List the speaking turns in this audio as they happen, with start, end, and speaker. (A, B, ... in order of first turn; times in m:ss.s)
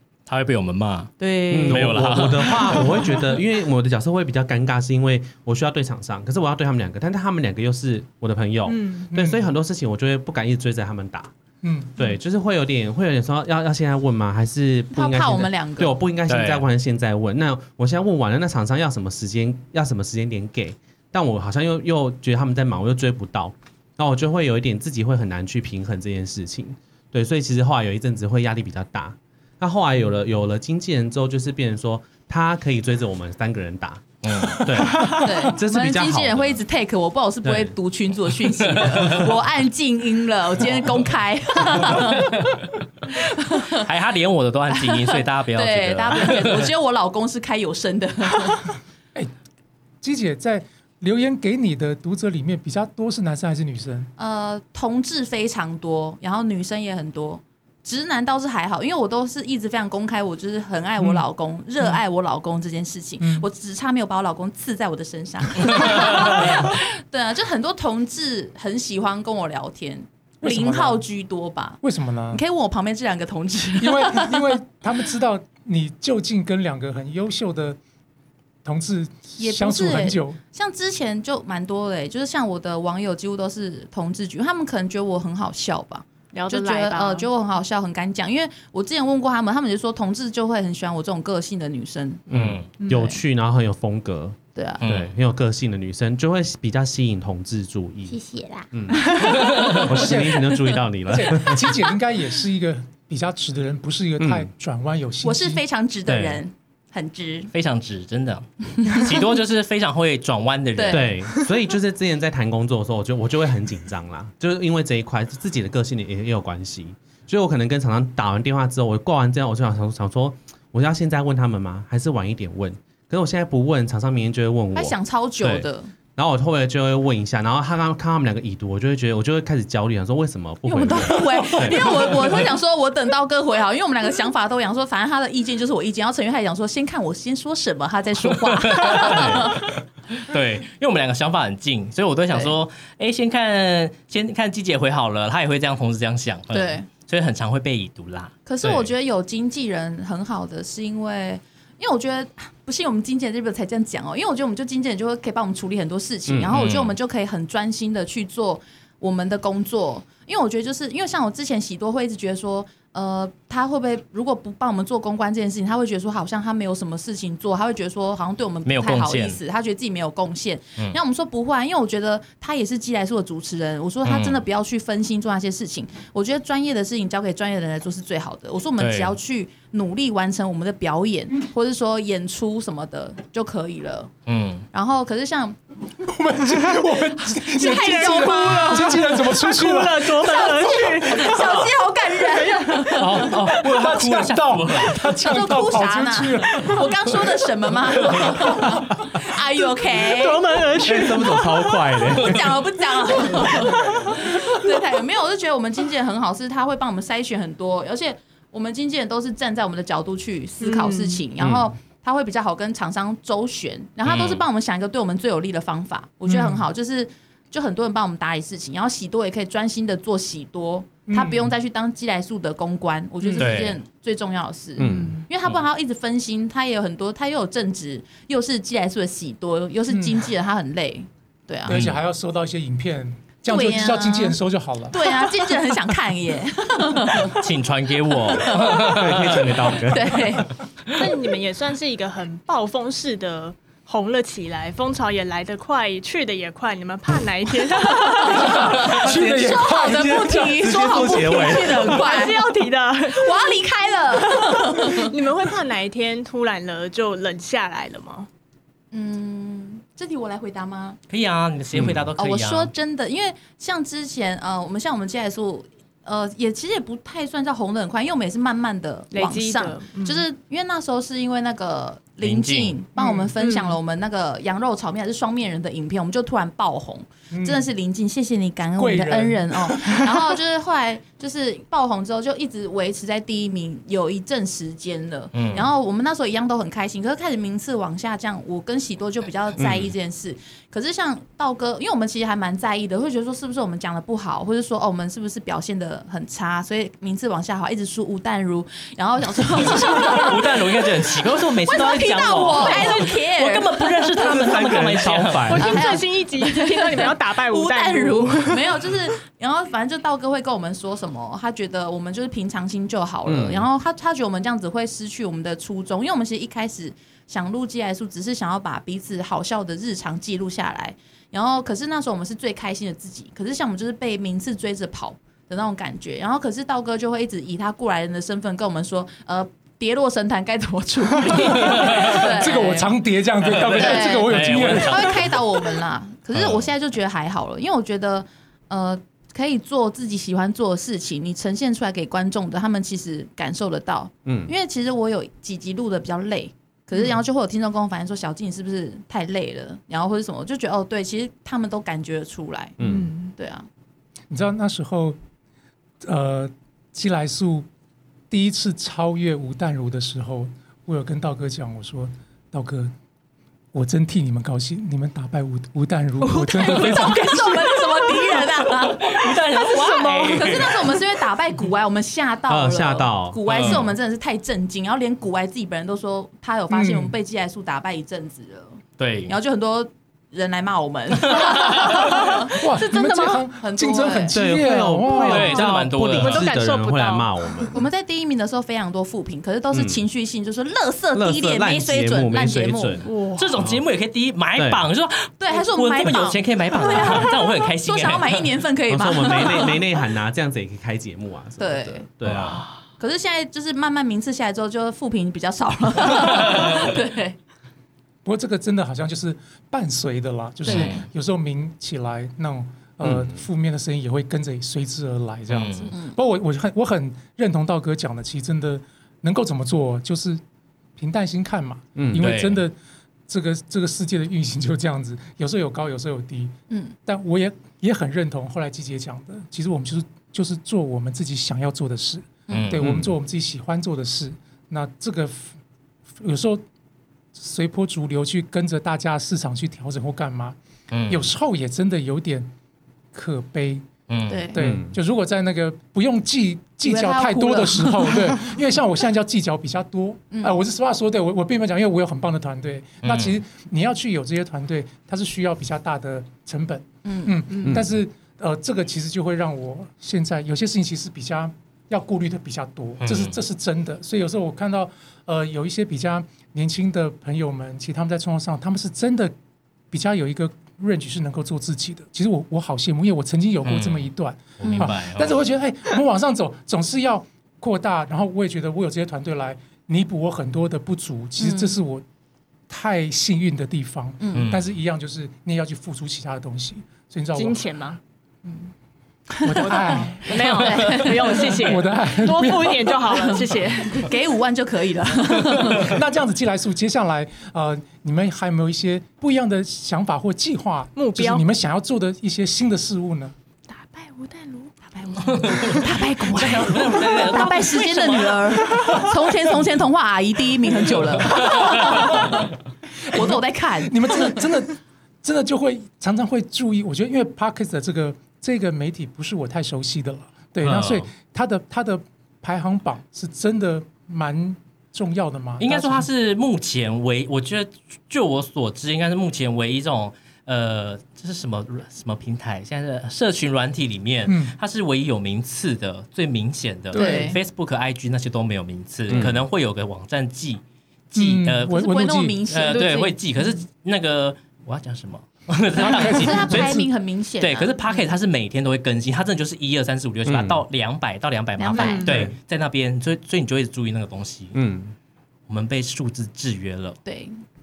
0:00.3-0:03.2 A
0:01.2-0:01.8 B
0:01.5-0:11.3 C
0:08.7-0:09.1 D
0:09.1-0:09.5 E
0:11.6-0:12.0 E
0:12.0-0:36.6 C
0:14.9-0:16.0 B
0:16.3-0:16.6 A
0:34.2-0:34.7 A
0:35.1-0:42.5 B
0:37.4-0:37.7 C
0:38.7-0:39.2 A
0:43.1-0:43.9 B
0:43.7-0:46.7 A
0:44.7-0:48.7 B
0:50.0-0:54.1 E
0:54.2-1:14.6 B
1:01.0-1:01.2 E
1:03.2-1:03.4 E
1:10.4-1:11.0 E
1:11.8-1:12.4 E
1:13.8-1:17.8 E
1:18.6-1:20.4 E
1:19.4-1:32.2 B
1:26.3-1:27.3 D
1:32.3-1:32.7 A
1:32.3-1:41.8 C
1:32.8-1:33.2 D
1:32.9-1:33.2 B
1:34.5-1:34.8 B
1:34.8-1:35.1 A
1:38.1-1:39.8 B
1:39.5-1:39.8 A
1:39.9-1:45.6 E
1:44.2-1:44.5 C
1:45.2-1:47.5 B
1:46.1-1:46.4 C
1:47.5-1:51.2 A
1:50.7-1:51.1 B
1:50.9-2:12.4 C
2:04.7-2:05.9 B
2:10.6-2:19.7 B
2:18.4-2:28.8 A
2:19.1-2:19.4 C
2:26.5-2:26.9 B
2:28.4-3:04.1 B
2:36.3-2:36.5 C
2:36.5-2:36.9 A
2:48.6-2:49.4 A
2:54.0-2:54.4 A
2:58.8-2:59.1 A
3:04.3-3:04.7 A
3:04.7-3:05.6 B
3:06.0-3:10.5 E
3:07.2-3:09.3 B
3:07.5-3:11.7 D
3:10.2-3:13.3 B
3:12.4-3:12.9 D
3:13.0-3:17.2 E
3:13.0-3:15.0 A
3:15.1-3:20.4 B
3:18.1-3:18.4 E
3:19.9-3:22.0 D
3:20.8-3:22.6 C
3:22.1-3:51.8 B
3:30.6-3:31.2 D
3:31.4-3:31.7 C
3:34.0-3:34.4 A
3:36.2-3:36.6 E
3:41.1-3:41.5 E
3:43.4-3:43.8 A
3:44.8-3:45.2 C
3:44.8-3:45.2 D
3:49.9-3:50.3 E
3:51.7-3:55.3 E
3:51.7-3:52.0 A
3:53.5-3:54.4 B
3:54.9-3:57.4 B
3:57.3-3:59.7 A
3:58.3-3:59.0 B
3:58.7-4:00.4 C
3:59.8-4:00.5 B
4:00.9-4:08.5 D
4:07.9-4:12.5 B
4:08.3-4:11.1 E
4:08.8-4:12.1 C
4:11.4-4:18.3 D
4:13.1-4:15.1 B
4:18.9-4:21.0 B
4:21.1-4:22.7 A
4:21.7-4:22.1 C
4:22.2-5:00.8 B
4:29.1-4:30.2 D
4:32.2-4:32.8 A
4:33.0-4:33.3 E
4:33.4-4:33.8 D
4:37.3-4:37.7 E
4:38.8-4:40.2 E
4:45.3-4:45.7 A
4:49.6-4:49.9 C
4:59.6-5:05.7 A
5:01.6-5:04.3 B
5:02.6-5:03.0 D
5:04.2-5:05.8 C
5:05.5-5:08.6 D
5:05.6-5:32.9 B
5:13.2-5:13.6 C
5:31.2-5:35.1 E
5:31.7-5:32.2 A
5:33.4-5:35.4 A
5:33.6-5:52.8 B
5:36.3-5:36.7 A
5:44.2-5:44.5 C
5:52.8-5:53.1 C
5:52.8-5:53.3 D
5:53.4-5:53.7 B
5:54.3-5:55.2 E
5:56.0-5:57.7 E
5:58.3-6:02.9 E
6:03.7-6:07.8 E
6:06.2-6:24.4 B
6:08.8-6:10.9 A
6:12.5-6:13.4 C
6:13.5-6:13.9 A
6:16.7-6:17.1 E
6:19.0-6:19.3 A
6:21.3-6:21.9 A
6:22.5-6:25.6 E
6:24.3-6:27.8 C
6:25.1-6:26.5 A
6:26.1-6:27.7 D
6:27.7-6:33.1 B
6:29.7-6:30.0 C
6:31.1-6:33.8 C
6:33.0-6:33.6 D
6:33.4-6:38.5 A
6:34.6-6:34.8 C
6:35.4-6:39.8 B
6:38.9-6:42.6 C
6:41.6-6:42.1 B
6:42.2-6:42.6 A
6:42.4-6:42.8 D
6:43.0-6:47.4 B
6:48.2-7:00.4 E
6:50.6-6:51.0 B
6:50.6-6:51.0 A
6:53.0-6:53.4 C
6:55.5-6:55.9 A
6:55.9-6:56.2 B
7:01.0-7:02.7 E
7:02.0-7:02.2 C
7:02.2-7:02.6 A
7:03.3-7:06.5 E
7:06.7-7:07.0 B
7:07.0-7:15.6 E
7:12.5-7:12.8 B
7:12.5-7:13.0 A
7:12.8-7:13.1 C
7:16.2-7:16.6 E
7:17.3-7:20.6 E
7:20.9-7:21.3 A
7:21.1-7:22.5 E
7:23.1-7:23.8 E
7:24.1-7:24.5 A
7:24.3-7:24.6 B
7:24.5-7:49.3 E
7:24.6-7:24.9 C
7:26.8-7:28.3 B
7:30.3-7:30.6 B
7:33.0-7:33.4 A
7:37.0-7:37.6 B
7:43.0-7:43.3 A
7:49.9-8:02.0 E
7:53.6-7:55.4 A
7:54.6-7:54.9 B
8:01.4-8:01.8 B
8:02.7-8:07.6 E
8:04.2-8:04.5 B
8:04.3-8:04.7 A
8:07.3-8:08.0 D
8:09.4-8:11.5 B
8:09.4-8:13.1 E
8:09.6-8:14.1 D
8:10.6-8:11.0 A
8:13.1-8:16.0 B
8:15.6-8:23.3 E
8:21.0-8:21.4 D
8:23.7-8:25.8 D
8:24.9-8:32.5 B
8:25.4-8:28.7 A
8:31.2-8:32.1 A
8:33.0-8:46.1 E
8:33.1-8:34.4 B
8:40.6-8:41.0 A
8:45.6-9:01.9 A
8:54.2-8:54.5 E
8:56.9-8:57.3 E
8:56.9-8:57.4 B
8:59.1-8:59.4 C
9:01.1-9:02.4 E
9:01.7-9:03.1 B
9:02.5-9:06.8 A
9:02.8-9:03.0 D
9:05.8-9:06.8 E
9:06.0-9:07.8 B
9:07.4-9:14.5 A
9:10.2-9:10.6 C
9:11.6-9:12.1 B
9:11.7-9:12.2 D
9:12.1-9:12.3 C
9:14.5-9:14.9 C
9:15.5-9:17.0 A
9:17.0-9:17.4 B